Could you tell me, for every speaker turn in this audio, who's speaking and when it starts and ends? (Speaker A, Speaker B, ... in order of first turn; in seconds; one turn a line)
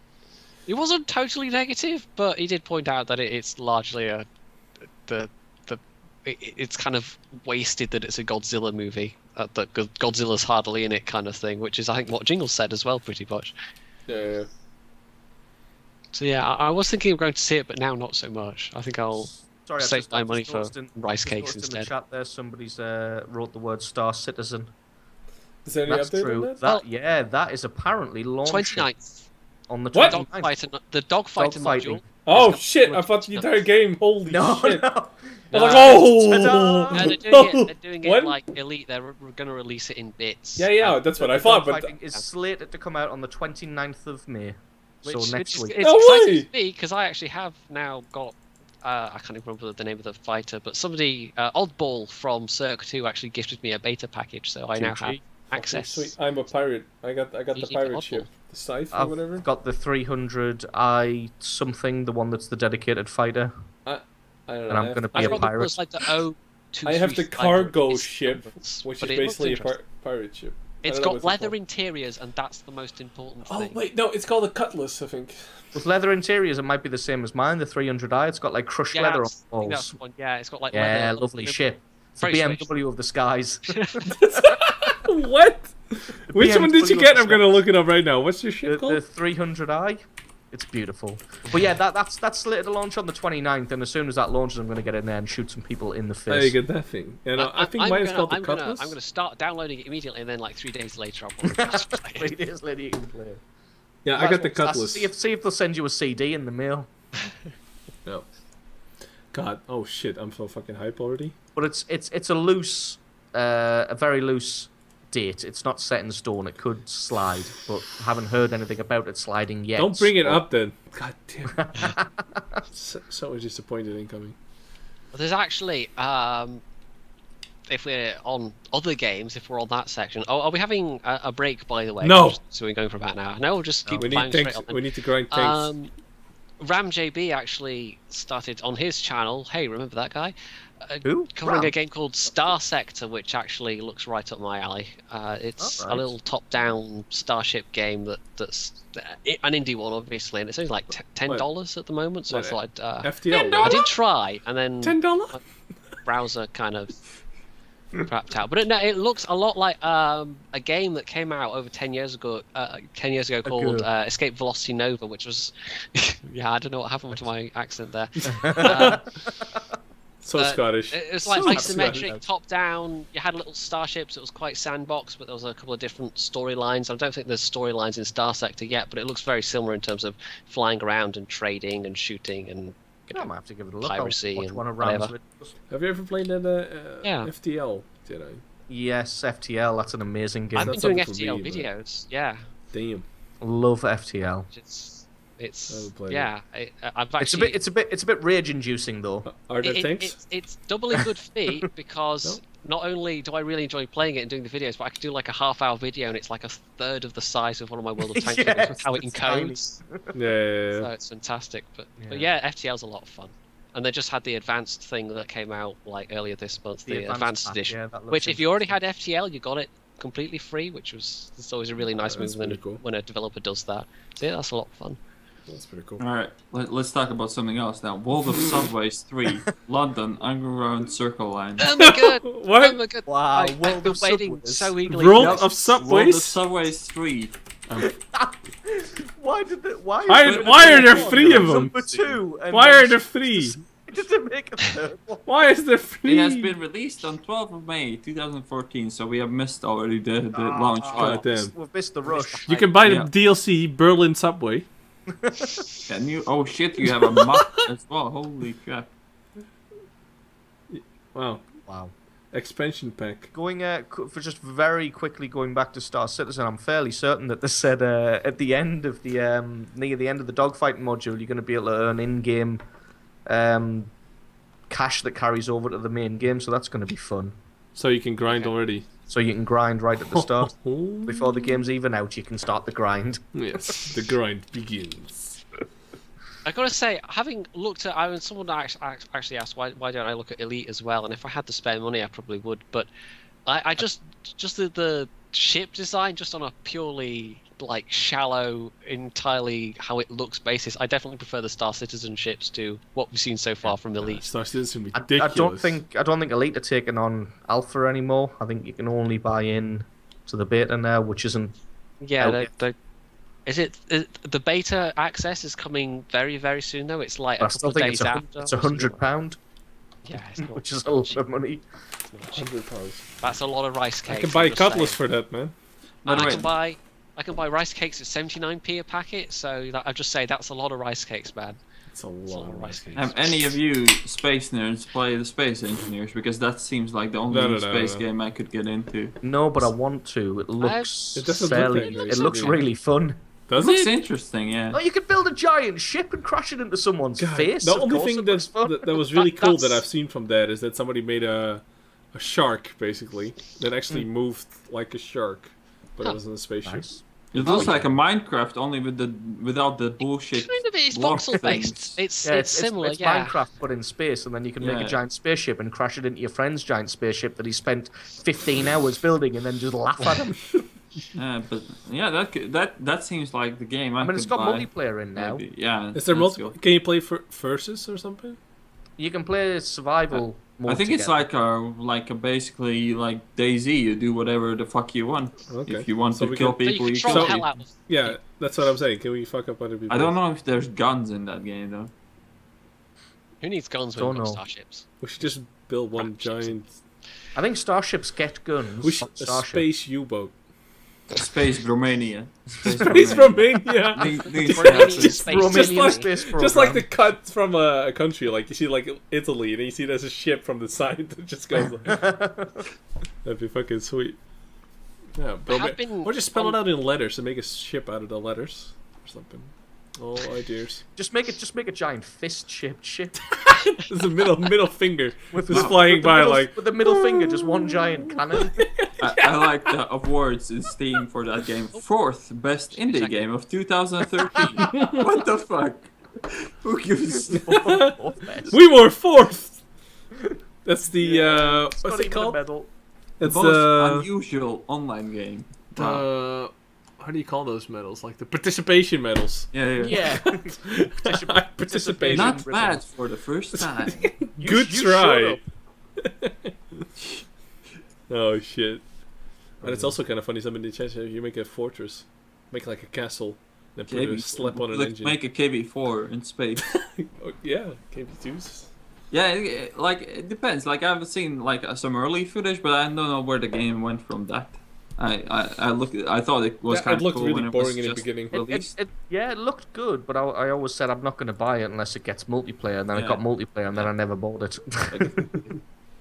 Speaker A: 0.7-4.2
Speaker A: 5.0-13.5
Speaker B: 14.1-14.5
Speaker A: 16.1-21.9
Speaker C: 19.1-24.7
Speaker B: 25.6-26.6
Speaker C: 25.9-28.9
Speaker A: 28.5-29.3
Speaker C: 29.7-30.5
Speaker B: 29.9-30.2
Speaker A: 30.0-33.5
Speaker C: 31.4-32.6
Speaker B: 32.2-34.8
Speaker C: 34.3-37.2
Speaker B: 35.5-38.4
Speaker A: 35.5-36.0
Speaker A: 36.9-40.7
Speaker B: 40.5-41.9
Speaker C: 40.8-45.8
Speaker A: 45.0-56.1
Speaker B: 45.8-46.5
Speaker C: 54.7-55.2
Speaker B: 55.5-59.5
Speaker A: 57.5-58.3
Speaker C: 58.9-63.5
Speaker B: 63.8-65.5
Speaker C: 64.7-65.8
Speaker A: 65.1-69.8
Speaker B: 66.8-71.5
Speaker A: 70.8-73.8
Speaker B: 73.4-75.6
Speaker C: 75.7-80.0
Speaker A: 78.9-81.6
Speaker C: 80.7-84.5
Speaker A: 82.2-82.7
Speaker A: 83.8-84.0
Speaker B: 84.1-89.0
Speaker C: 86.3-87.4
Speaker C: 88.6-96.6
Speaker B: 96.3-99.0
Speaker A: 97.4-102.3
Speaker C: 101.6-103.2
Speaker B: 104.0-105.1
Speaker C: 104.2-106.9
Speaker B: 109.3-111.3
Speaker C: 111.5-120.4
Speaker B: 119.8-121.7
Speaker C: 121.5-122.6
Speaker B: 122.7-124.3
Speaker A: 125.1-126.6
Speaker A: 127.7-135.9
Speaker B: 132.0-132.4
Speaker C: 133.8-134.2
Speaker B: 134.0-135.7
Speaker A: 136.6-155.4
Speaker C: 141.0-141.7
Speaker C: 145.6-146.1
Speaker B: 152.3-153.8
Speaker D: 153.3-153.9
Speaker B: 154.8-155.4
Speaker A: 156.0-157.0
Speaker A: 158.0-169.1
Speaker C: 163.4-163.9
Speaker B: 168.2-169.0
Speaker C: 168.3-169.6
Speaker B: 170.2-172.1
Speaker A: 170.4-183.3
Speaker C: 171.5-172.2
Speaker C: 183.1-185.5
Speaker A: 183.8-185.1
Speaker B: 185.7-188.4
Speaker A: 187.0-187.3
Speaker C: 188.7-190.8
Speaker B: 190.5-191.7
Speaker A: 190.6-192.5
Speaker B: 192.7-193.0
Speaker C: 193.4-194.5
Speaker A: 194.5-197.6
Speaker B: 195.7-196.3
Speaker C: 197.2-199.3
Speaker B: 199.2-200.2
Speaker A: 199.6-209.8
Speaker C: 208.1-210.1
Speaker B: 210.1-210.9
Speaker A: 210.8-225.0
Speaker C: 212.0-212.3
Speaker C: 216.9-218.7
Speaker B: 222.0-222.8
Speaker B: 225.5-226.0
Speaker D: 226.0-231.7
Speaker A: 231.6-235.5
Speaker B: 231.7-232.8
Speaker C: 233.1-234.7
Speaker B: 234.9-236.4
Speaker D: 235.1-237.4
Speaker C: 237.8-245.3
Speaker B: 240.1-243.6
Speaker D: 240.2-241.8
Speaker B: 245.2-246.5
Speaker D: 246.0-251.2
Speaker C: 250.3-252.6
Speaker B: 250.9-251.5
Speaker A: 252.1-252.7
Speaker B: 252.4-254.7
Speaker C: 255.2-255.6
Speaker D: 255.9-258.9
Speaker B: 257.0-257.6
Speaker B: 260.7-261.4
Speaker C: 261.7-261.9
Speaker B: 262.3-263.3
Speaker C: 263.3-272.6
Speaker C: 273.3-273.9
Speaker C: 274.7-277.3
Speaker B: 277.7-278.9
Speaker A: 278.3-278.5
Speaker C: 279.1-283.8
Speaker B: 280.1-281.4
Speaker B: 283.3-285.4
Speaker A: 286.4-292.9
Speaker A: 293.4-304.3
Speaker B: 304.0-305.8
Speaker C: 304.9-311.6
Speaker A: 312.0-312.8
Speaker C: 312.2-312.5
Speaker A: 313.4-319.0
Speaker C: 317.4-319.4
Speaker A: 320.0-321.2
Speaker C: 320.4-321.6
Speaker B: 322.3-323.1
Speaker A: 323.2-325.0
Speaker B: 324.1-325.5
Speaker D: 326.0-326.5
Speaker A: 326.0-331.6
Speaker B: 331.9-333.1
Speaker A: 332.3-333.2
Speaker D: 332.9-339.2
Speaker B: 337.3-338.0
Speaker C: 339.2-343.2
Speaker A: 340.6-342.6
Speaker B: 341.1-342.6
Speaker B: 343.5-343.9
Speaker D: 343.6-344.8
Speaker C: 344.7-349.2
Speaker B: 347.2-356.9
Speaker A: 349.3-349.8
Speaker C: 356.6-357.8
Speaker D: 357.3-362.0
Speaker A: 360.4-363.4
Speaker C: 362.2-370.7
Speaker D: 364.6-365.0
Speaker D: 371.1-376.6
Speaker C: 374.0-375.4
Speaker B: 375.9-378.4
Speaker C: 379.0-381.2
Speaker D: 380.1-387.5
Speaker B: 385.5-390.1
Speaker A: 386.6-388.2
Speaker D: 389.9-391.9
Speaker A: 393.4-395.4
Speaker C: 393.9-394.4
Speaker B: 395.0-396.8
Speaker A: 396.0-396.6
Speaker C: 397.3-399.6
Speaker B: 398.8-400.3
Speaker D: 401.1-405.3
Speaker B: 402.8-412.0
Speaker A: 403.9-406.1
Speaker C: 405.1-406.9
Speaker C: 411.8-412.6
Speaker B: 413.2-414.2
Speaker B: 415.1-420.8
Speaker A: 415.5-416.6
Speaker C: 420.9-423.3
Speaker B: 423.3-429.7
Speaker C: 425.3-428.7
Speaker D: 429.0-437.6
Speaker A: 432.7-433.2
Speaker B: 434.7-435.0
Speaker C: 437.4-438.5
Speaker B: 437.5-438.0
Speaker B: 438.5-439.6
Speaker B: 440.6-442.4
Speaker C: 441.0-442.7
Speaker B: 443.2-444.1
Speaker D: 443.2-446.0
Speaker B: 445.7-452.4
Speaker D: 449.5-450.0
Speaker C: 449.8-452.8
Speaker D: 452.1-454.1
Speaker B: 453.5-455.4
Speaker C: 454.4-455.4
Speaker B: 456.0-456.5
Speaker B: 458.1-458.9
Speaker B: 459.6-465.1
Speaker C: 459.6-460.0
Speaker D: 463.9-466.8
Speaker B: 466.9-468.7
Speaker D: 469.1-478.7
Speaker B: 476.7-478.4
Speaker C: 478.3-485.2
Speaker D: 482.9-483.2
Speaker D: 484.9-485.6